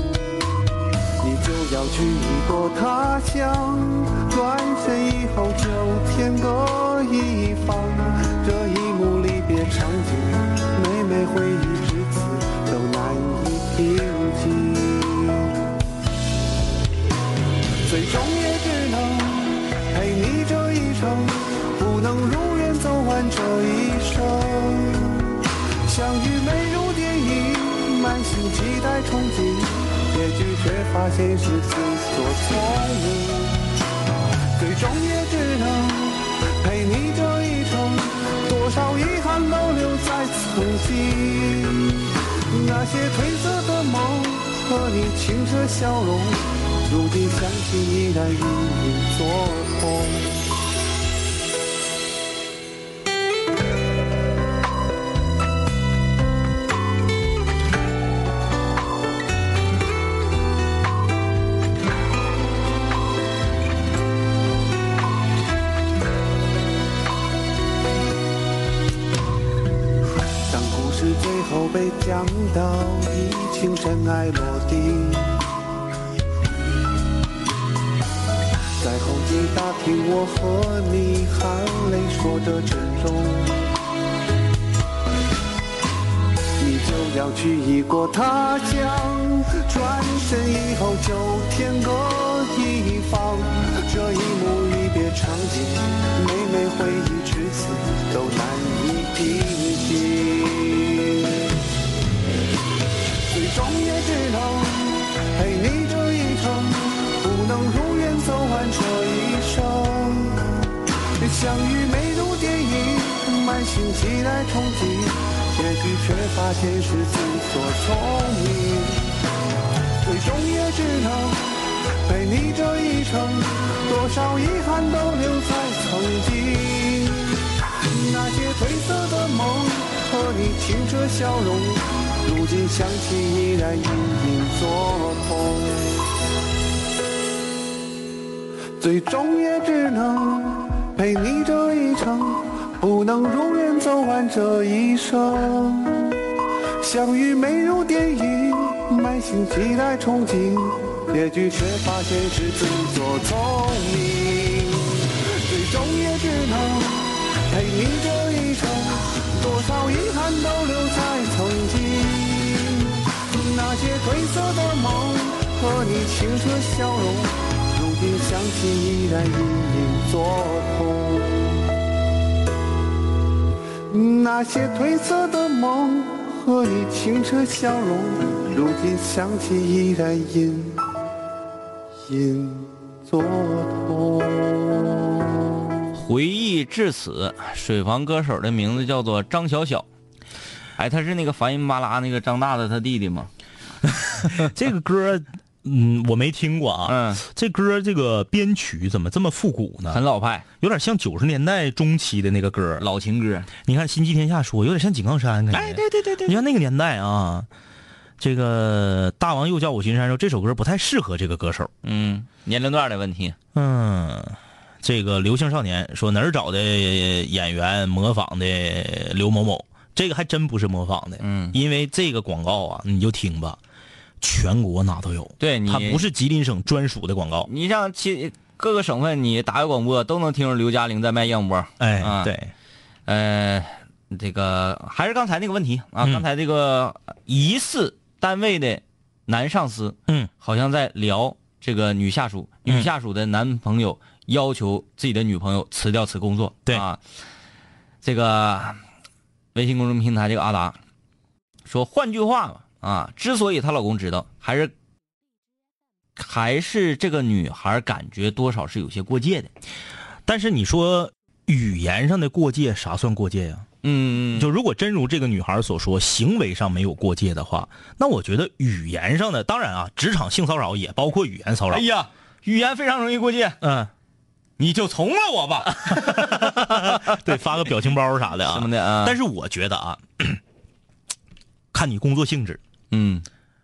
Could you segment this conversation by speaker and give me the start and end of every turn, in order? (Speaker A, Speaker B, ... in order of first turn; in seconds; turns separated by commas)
Speaker A: 1.2-15.6, Speaker A: 17.8-33.7, Speaker A: 34.6-50.4, Speaker A: 70.5-75.4, Speaker A: 78.8-83.7, Speaker A: 86.6-101.5, Speaker A: 103.3-110.5, Speaker A: 111.2-119.1, Speaker A: 120.0-136.0, Speaker A: 138.8-146.2, Speaker A: 146.8-171.5, Speaker A: 173.9-180.8, Speaker A: 182.1-184.9, Speaker B: 185.9-189.8, Speaker B: 190.8-193.3, Speaker C: 194.3-200.0, Speaker B: 196.9-197.2, Speaker B: 199.9-200.4, Speaker C: 200.6-202.8, Speaker B: 202.8-203.5, Speaker C: 203.6-207.5, Speaker B: 205.5-206.4, Speaker C: 208.2-211.7, Speaker B: 211.8-213.3, Speaker C: 213.5-223.6, Speaker B: 221.2-221.6, Speaker C: 224.2-227.5, Speaker B: 225.4-226.0, Speaker B: 227.4-232.3, Speaker C: 231.8-232.5, Speaker B: 233.1-247.0, Speaker B: 248.0-248.8, Speaker B: 249.5-250.8, Speaker B: 251.7-254.7, Speaker B: 256.1-259.5, Speaker C: 260.3-263.6, Speaker B: 263.8-264.5, Speaker C: 264.3-271.8, Speaker B: 271.7-273.6, Speaker C: 273.6-273.9, Speaker B: 274.6-277.2, Speaker C: 275.9-280.4, Speaker B: 278.5-279.2, Speaker C: 281.7-282.6, Speaker B: 282.9-283.2